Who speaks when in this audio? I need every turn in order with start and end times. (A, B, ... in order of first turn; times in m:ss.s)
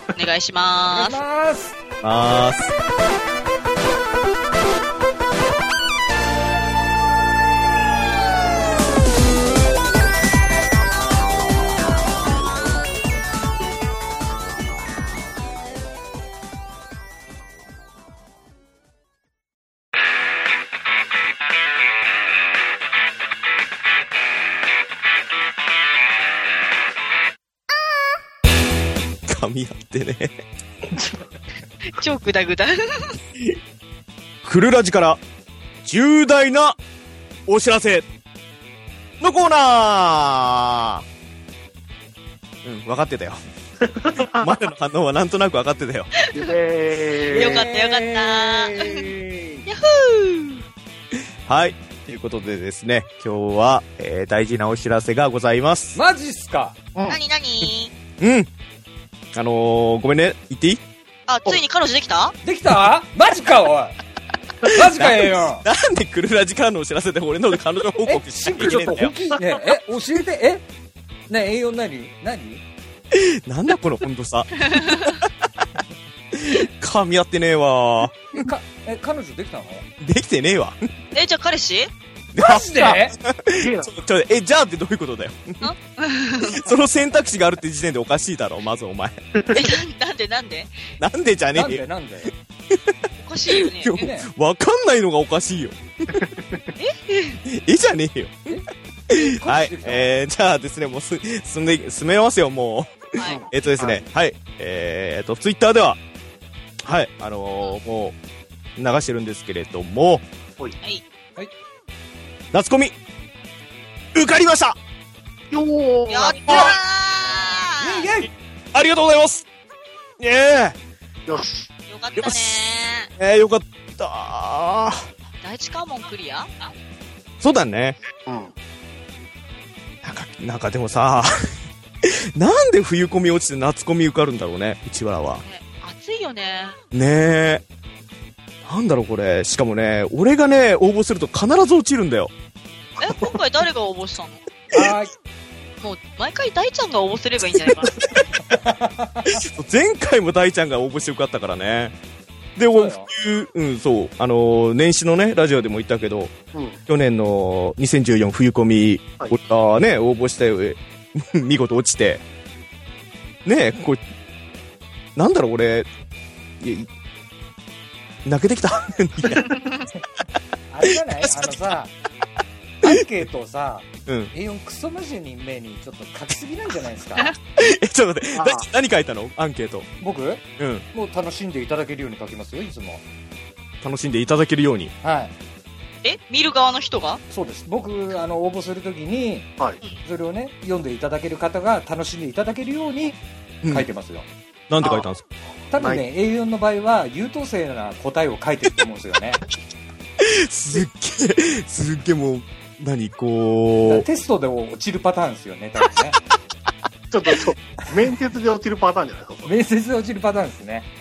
0:00.1-0:01.2 A
0:00.9-0:01.8 B
0:02.0-0:02.7 C
0:29.2-0:30.3 C
0:31.9-0:33.2 A
0:34.4-0:35.2 C
0:35.8-0:36.8 C
0:37.5-0:38.0 C
0:39.2-0:41.0 C
0:42.6-0:43.4 C
0:43.8-0:44.5 D
0:44.2-0:46.1 C
0:46.2-0:46.5 A
0:46.3-0:47.6 D
0:47.2-0:49.6 B
0:47.3-0:49.1 A
0:49.6-0:50.6 A
0:51.4-0:56.0 C
0:55.9-0:56.8 B
0:56.9-0:57.2 D
0:57.1-0:57.9 A
0:58.2-0:58.5 C
0:59.3-1:00.8 C
1:01.3-1:02.3 A
1:02.4-1:04.0 B
1:04.6-1:05.6 B
1:04.8-1:09.1 C
1:08.0-1:10.6 B
1:08.6-1:09.0 D
1:11.3-1:12.6 B
1:13.1-1:15.3 C
1:14.7-1:15.2 A
1:16.3-1:18.5 C
1:18.3-1:19.9 B
1:20.0-1:20.9 C
1:21.1-1:21.9 A
1:22.3-1:25.6 C
1:22.4-1:23.1 B
1:22.8-1:23.9 D
1:25.6-1:26.7 A
1:26.4-1:29.2 C
1:29.3-1:29.7 D
1:29.5-1:30.8 A
1:31.0-1:31.8 C
1:31.5-1:32.3 B
1:32.7-1:36.2 C
1:33.2-1:34.0 A
1:33.9-1:34.3 B
1:36.2-1:36.6 D
1:36.8-1:37.4 A
1:37.4-1:38.6 C
1:38.5-1:40.1 B
1:39.1-1:46.0 C
1:43.2-1:43.5 A
1:43.2-1:44.0 D
1:46.8-1:48.2 C
1:48.8-1:50.2 C
1:52.5-1:52.9 C
1:54.1-1:54.8 C
1:55.5-1:56.8 D
1:56.1-1:58.1 A
1:56.5-1:56.7 C
1:57.8-1:58.3 B
1:58.7-1:59.4 C
2:00.2-2:00.8 C
2:01.3-2:01.7 D
2:01.9-2:03.1 A
2:02.2-2:02.6 C
2:03.2-2:05.1 C
2:05.4-2:06.5 A
2:07.4-2:08.0 C
2:08.2-2:08.5 D
2:10.0-2:11.3 C
2:12.0-2:15.4 C
2:15.4-2:16.8 A
2:16.9-2:17.6 C
2:18.6-2:22.3 C
2:23.0-2:24.4 A
2:23.0-2:23.4 D
2:24.7-2:25.1 B
2:25.8-2:28.0 A
2:28.0-2:28.3 C
2:28.4-2:29.4 B
2:29.3-2:31.9 C
2:32.6-2:36.4 C
2:32.7-2:33.1 B
2:36.5-2:36.8 D
2:36.9-2:42.2 C
2:43.4-2:44.0 C
2:45.2-2:45.9 C
2:46.6-2:46.9 C
2:48.2-2:49.6 C
2:49.4-2:49.8 A
2:50.7-2:51.9 B
2:50.8-2:51.6 C
2:52.8-2:57.3 B
2:54.1-2:54.3 C
2:57.6-2:59.9 C
2:58.3-2:58.7 D
3:00.0-3:03.0 B
3:00.6-3:00.8 C
3:03.8-3:04.9 C
3:05.0-3:05.3 B
3:06.0-3:07.2 A
3:07.3-3:09.5 B
3:10.0-3:14.3 B
3:14.7-3:15.2 C
3:14.8-3:15.1 D
3:15.7-3:19.4 B
3:15.8-3:16.0 D
3:20.2-3:24.0 C
3:23.8-3:26.2 B
3:27.1-3:29.5 D
3:29.4-3:30.9 B